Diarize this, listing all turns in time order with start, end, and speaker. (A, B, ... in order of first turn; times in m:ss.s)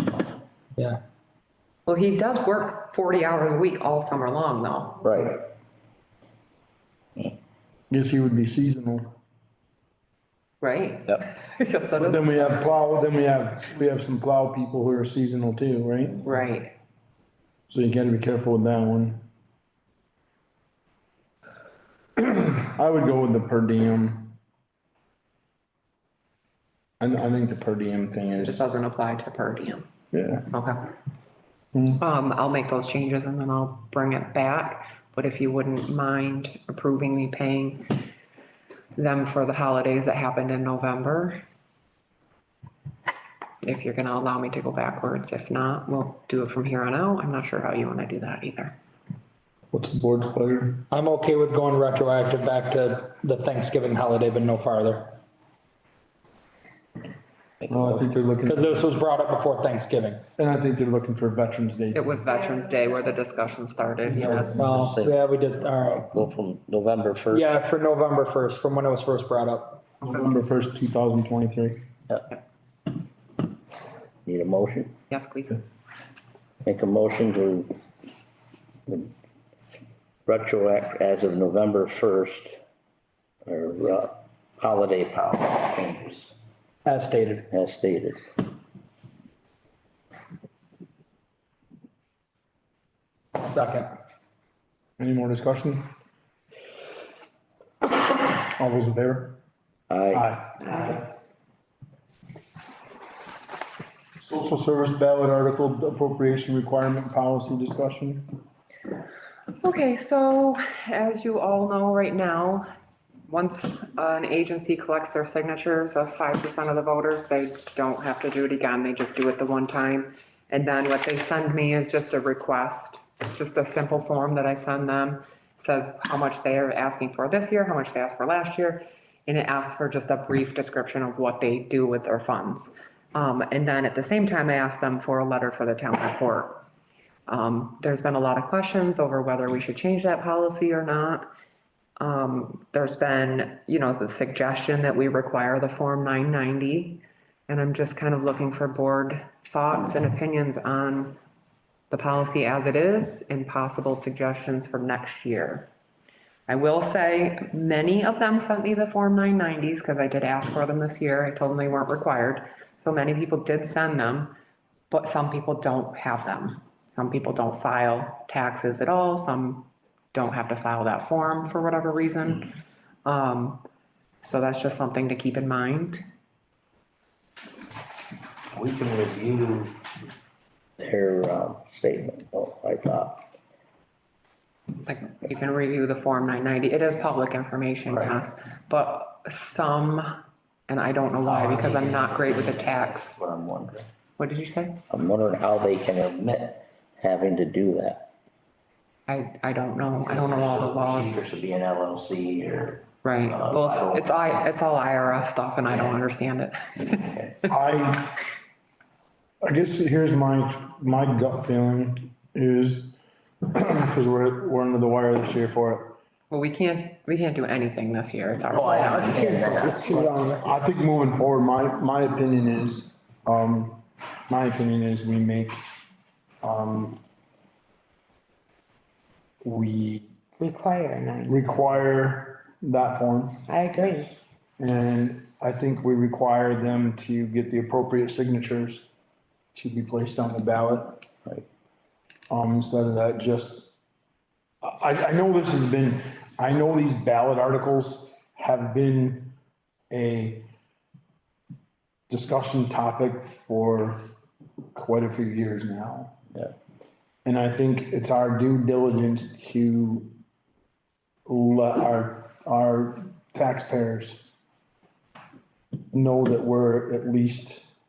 0:01.9-0:05.0 A
0:05.0-0:05.4 B
0:07.9-0:09.1 C
0:10.6-0:12.3 A
0:12.0-0:16.2 C
0:16.2-0:16.7 A
0:17.7-0:19.2 C
0:22.2-0:24.4 C
0:27.0-0:28.6 C
0:28.4-0:29.8 A
0:30.1-0:30.5 C
0:30.5-0:30.9 A
0:31.7-0:32.0 C
0:32.0-0:37.8 A
0:39.0-0:41.4 A
0:43.6-0:48.7 A
0:49.7-0:50.8 C
0:50.9-0:55.1 D
0:57.6-0:58.1 B
0:57.7-0:58.8 C
0:58.4-1:00.2 D
1:00.4-1:02.1 C
1:01.9-1:04.5 A
1:04.1-1:06.1 D
1:04.2-1:04.6 C
1:04.5-1:05.2 B
1:05.8-1:07.5 B
1:07.3-1:09.8 D
1:10.0-1:11.8 C
1:14.2-1:14.9 B
1:15.1-1:15.6 A
1:16.6-1:17.7 B
1:20.3-1:22.6 B
1:23.5-1:26.4 B
1:26.8-1:27.5 D
1:27.5-1:28.2 B
1:33.4-1:33.9 D
1:35.0-1:35.9 C
1:38.4-1:39.4 C
1:39.9-1:40.3 B
1:40.1-1:41.0 C
1:44.2-1:48.3 C
1:49.6-1:52.6 A
1:53.3-2:16.6 A
2:17.3-2:21.3 A
2:22.0-2:31.2 A
2:31.9-2:35.7 A
2:36.5-2:44.3 A
2:44.9-2:52.5 A
2:53.1-2:53.6 A
2:54.2-2:56.0 A
2:58.5-2:59.8 B
3:00.8-3:03.2 B
3:04.8-3:13.2 A
3:11.2-3:13.9 B
3:14.2-3:14.8 A
3:14.9-3:18.1 B
3:19.1-3:21.3 A
3:20.1-3:24.4 B
3:23.0-3:27.1 A
3:25.7-3:26.0 B
3:27.0-3:27.4 B
3:27.5-3:28.2 C
3:29.4-3:36.0 C
3:36.3-3:39.8 A
3:38.5-3:40.2 B
3:39.1-3:40.4 E
3:39.8-3:45.6 C
3:46.4-3:47.0 C
3:49.4-3:50.0 C
3:50.4-3:51.5 E
3:51.3-3:53.4 C
3:53.5-3:54.1 E
3:54.6-3:58.9 C
3:59.6-4:01.0 C
4:02.3-4:03.7 C
4:04.6-4:09.4 C
4:09.9-4:10.5 C
4:12.1-4:14.0 C
4:14.8-4:16.1 C
4:17.2-4:20.1 C
4:21.3-4:24.3 C
4:25.9-4:27.7 C